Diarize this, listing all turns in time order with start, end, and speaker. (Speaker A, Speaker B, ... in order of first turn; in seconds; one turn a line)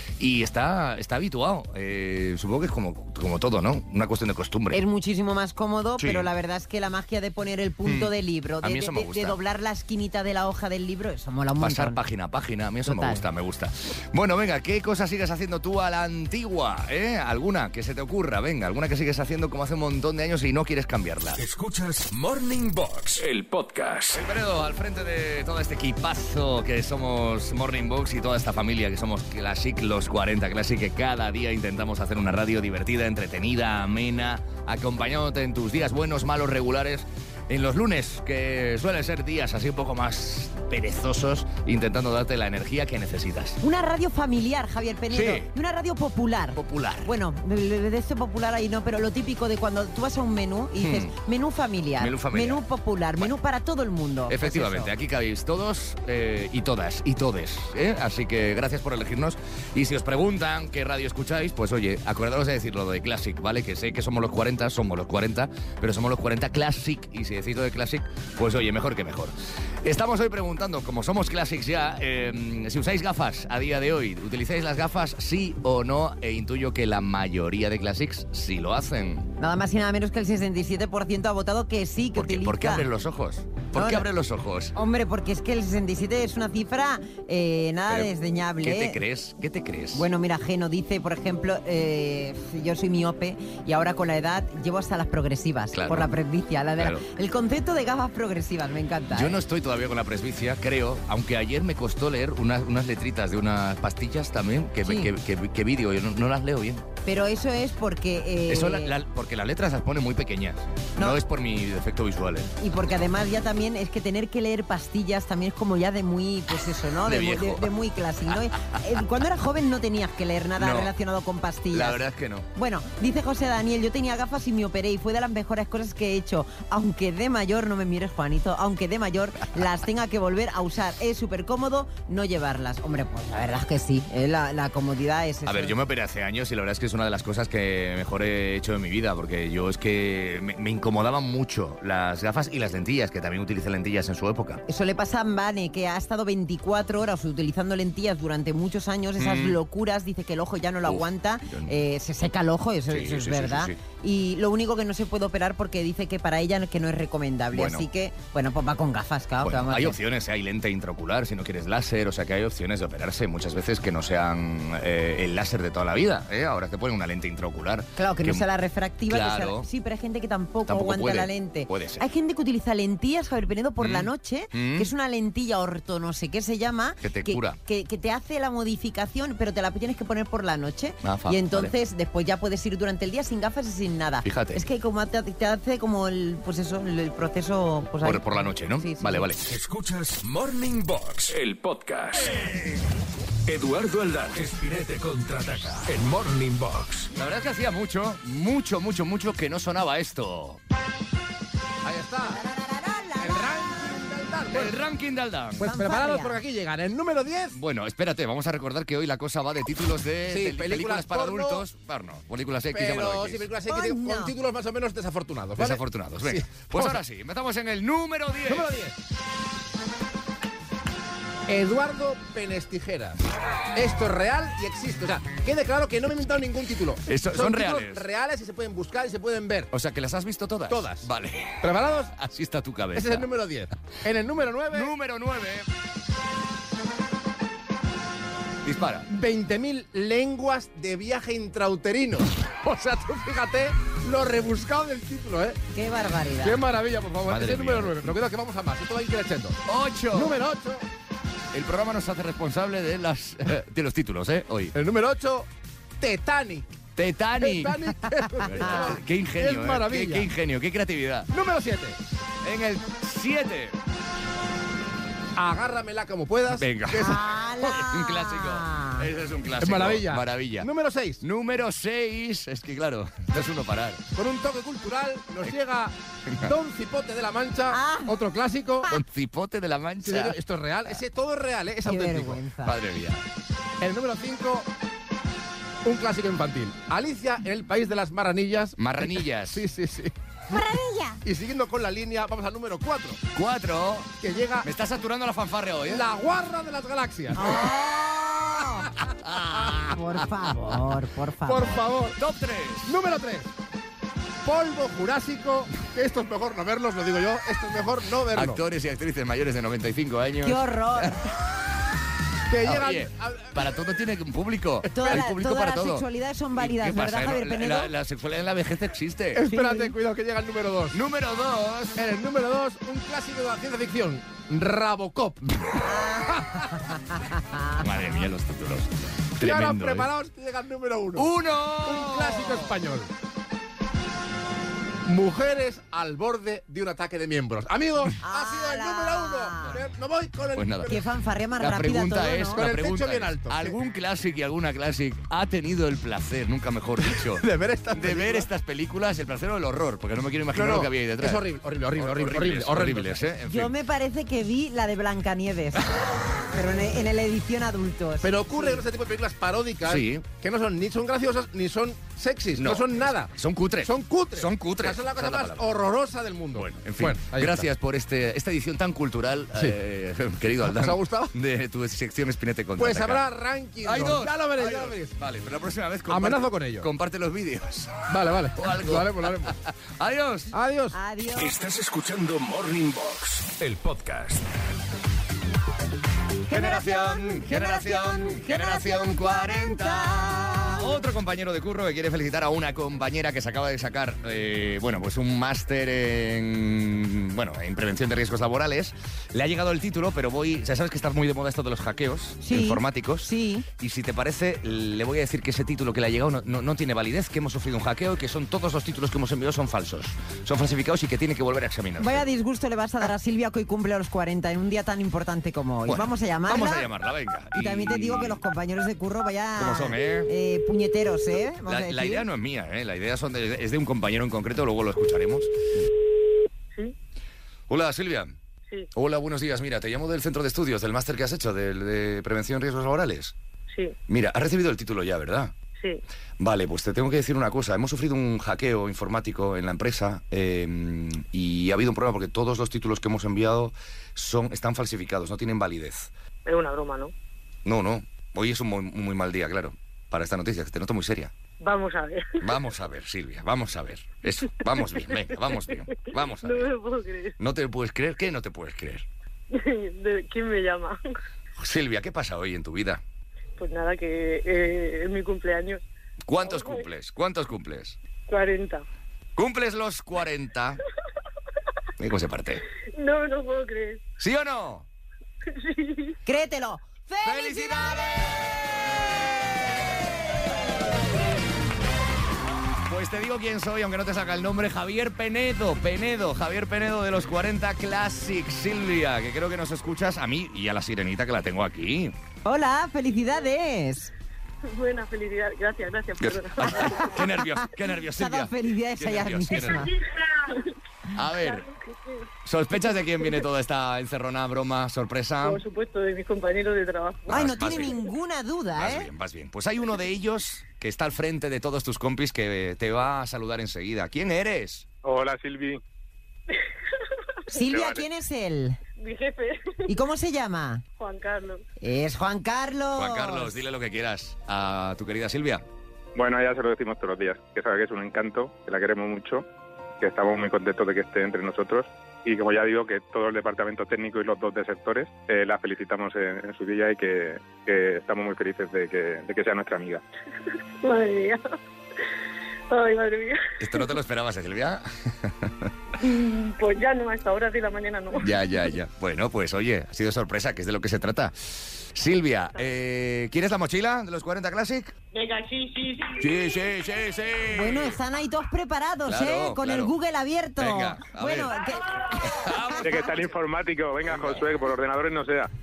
Speaker A: 0.2-4.8
Speaker B: 4.7-12.0
Speaker A: 6.0-6.3
Speaker A: 7.8-9.4
Speaker A: 11.6-21.4
Speaker B: 12.8-13.2
Speaker C: 21.3-24.2
Speaker A: 24.1-43.6
Speaker B: 43.6-54.9
Speaker A: 45.1-45.5
Speaker A: 46.6-47.1
Speaker A: 50.8-51.1
Speaker A: 52.0-52.6
Speaker A: 54.3-79.3
Speaker B: 79.4-82.9
Speaker A: 82.1-84.7
Speaker B: 83.8-84.1
Speaker B: 84.8-89.0
Speaker A: 87.9-90.1
Speaker B: 90.0-99.4
Speaker A: 95.7-96.1
Speaker A: 96.8-97.1
Speaker A: 99.1-106.8
Speaker B: 104.8-105.1
Speaker B: 107.0-109.0
Speaker A: 108.5-112.5
Speaker B: 112.6-122.0
Speaker A: 117.0-117.7
Speaker A: 118.3-118.8
Speaker A: 120.6-120.9
Speaker A: 121.7-122.5
Speaker B: 122.5-135.7
Speaker A: 135.5-144.6
Speaker B: 144.7-160.0
Speaker A: 149.2-149.6
Speaker A: 150.9-151.8
Speaker A: 152.9-153.8
Speaker A: 157.5-157.9
Speaker A: 159.4-168.5
Speaker B: 168.0-189.3
Speaker A: 169.1-169.7
Speaker A: 170.7-172.1
Speaker A: 173.8-174.9
Speaker A: 177.0-177.6
Speaker A: 181.0-181.7
Speaker A: 184.2-184.6
Speaker A: 188.0-189.5
Speaker C: 189.4-192.7
Speaker C: 193.5-197.1
Speaker A: 197.1-200.6
Speaker D: 201.8-202.4
Speaker B: 202.3-204.0
Speaker D: 203.2-204.8
Speaker A: 204.5-205.6
Speaker D: 205.6-207.6
Speaker B: 205.6-206.4
Speaker A: 207.5-213.5
Speaker D: 210.3-211.7
Speaker D: 212.7-217.0
Speaker B: 213.7-214.3
Speaker A: 215.6-218.7
Speaker D: 218.5-218.9
Speaker D: 221.5-229.7
Speaker A: 227.1-228.1
Speaker A: 229.7-233.3
Speaker D: 230.7-231.1
Speaker D: 231.6-232.2
Speaker D: 232.9-234.9
Speaker A: 234.7-235.7
Speaker A: 238.6-239.1
Speaker D: 239.1-245.6
Speaker B: 245.8-246.6
Speaker D: 246.4-249.6
Speaker A: 247.3-248.2
Speaker A: 249.7-250.4
Speaker D: 250.1-250.8
Speaker A: 251.5-254.7
Speaker D: 254.8-255.5
Speaker D: 256.0-256.7
Speaker A: 257.0-257.8
Speaker D: 257.4-260.3
Speaker A: 258.4-261.3
Speaker D: 261.3-262.0
Speaker A: 262.4-263.8
Speaker D: 265.4-267.2
Speaker A: 266.5-270.7
Speaker B: 266.9-269.1
Speaker D: 269.6-271.2
Speaker A: 271.2-274.0
Speaker D: 274.2-278.9
Speaker B: 277.7-278.3
Speaker A: 278.9-281.0
Speaker D: 280.0-282.4
Speaker B: 281.9-282.8
Speaker A: 282.6-283.2
Speaker D: 283.8-284.7
Speaker D: 285.8-290.1
Speaker A: 288.8-289.6
Speaker B: 290.5-291.2
Speaker D: 291.2-293.2
Speaker A: 293.3-296.1
Speaker D: 294.2-294.7
Speaker D: 295.9-297.7
Speaker B: 297.3-298.9
Speaker A: 299.2-300.0
Speaker B: 299.7-301.8
Speaker D: 301.5-302.2
Speaker A: 302.2-302.9
Speaker D: 302.9-303.5
Speaker D: 304.4-308.6
Speaker A: 308.3-311.3
Speaker B: 310.4-311.3
Speaker D: 312.5-313.7
Speaker A: 312.6-319.4
Speaker B: 314.9-317.9
Speaker D: 319.4-321.0
Speaker B: 319.5-319.9
Speaker A: 320.9-322.0
Speaker D: 322.0-326.8
Speaker B: 325.8-327.8
Speaker A: 327.8-330.1
Speaker D: 329.4-331.3
Speaker A: 331.2-332.8
Speaker D: 331.8-333.1
Speaker D: 335.1-341.0
Speaker B: 338.2-339.8
Speaker A: 340.6-341.0
Speaker B: 340.9-342.6
Speaker A: 341.6-351.4
Speaker D: 342.5-343.8
Speaker D: 347.1-348.5
Speaker D: 350.6-353.3
Speaker A: 352.0-353.7
Speaker B: 353.5-358.8
Speaker D: 358.2-363.3
Speaker A: 359.9-360.3
Speaker A: 362.6-365.7
Speaker D: 363.8-367.6
Speaker A: 366.6-373.2
Speaker D: 370.7-371.3
Speaker D: 372.8-375.1
Speaker A: 373.8-380.5
Speaker D: 376.1-376.9
Speaker D: 378.1-379.6
Speaker D: 380.5-381.0
Speaker B: 380.9-381.5
Speaker C: 381.4-384.7
Speaker B: 386.5-390.9
Speaker A: 386.5-412.3
Speaker B: 402.4-403.7
Speaker B: 412.0-416.9
Speaker A: 415.9-418.4
Speaker B: 417.5-422.3
Speaker A: 419.6-420.3
Speaker A: 421.7-425.5
Speaker A: 427.7-428.4
Speaker A: 428.9-433.4
Speaker E: 433.7-434.0
Speaker A: 434.1-435.5
Speaker A: 436.4-446.1
Speaker E: 446.5-447.1
Speaker A: 447.6-451.3
Speaker E: 451.6-452.4
Speaker A: 452.4-456.7
Speaker E: 454.9-457.4
Speaker A: 457.4-459.1
Speaker E: 459.5-461.1
Speaker A: 461.6-463.0
Speaker E: 463.6-465.8
Speaker A: 466.3-468.0
Speaker E: 466.4-466.9
Speaker E: 468.3-468.9
Speaker A: 469.4-470.8
Speaker A: 472.0-472.6
Speaker E: 472.9-474.0
Speaker A: 474.2-474.9
Speaker E: 475.5-476.2
Speaker B: 476.2-479.0
Speaker A: 477.2-480.1
Speaker B: 480.2-480.7
Speaker A: 482.9-492.1
Speaker B: 492.4-494.1
Speaker E: 494.6-497.2
Speaker A: 496.2-499.9
Speaker B: 496.8-497.1
Speaker B: 498.1-499.9
Speaker E: 499.6-500.7
Speaker A: 501.1-501.7
Speaker E: 501.3-502.3
Speaker A: 502.4-505.6
Speaker E: 505.4-507.9
Speaker A: 507.3-508.0
Speaker B: 507.3-509.1
Speaker A: 508.8-514.9
Speaker F: 515.0-515.8
Speaker B: 517.5-518.8
Speaker F: 517.6-518.1
Speaker E: 519.0-519.8
Speaker B: 519.9-520.8
Speaker E: 521.0-521.6
Speaker B: 521.8-523.6
Speaker A: 523.0-525.6
Speaker F: 526.1-529.5
Speaker F: 530.0-540.0
Speaker E: 540.8-541.5
Speaker E: 542.7-543.5
Speaker A: 543.6-545.7
Speaker E: 546.0-548.3
Speaker A: 548.2-555.0
Speaker E: 555.1-556.5
Speaker A: 556.2-558.0
Speaker B: 557.5-561.9
Speaker A: 559.1-559.9
Speaker A: 560.6-561.6
Speaker A: 562.2-563.3
Speaker F: 562.8-565.5
Speaker A: 564.0-564.5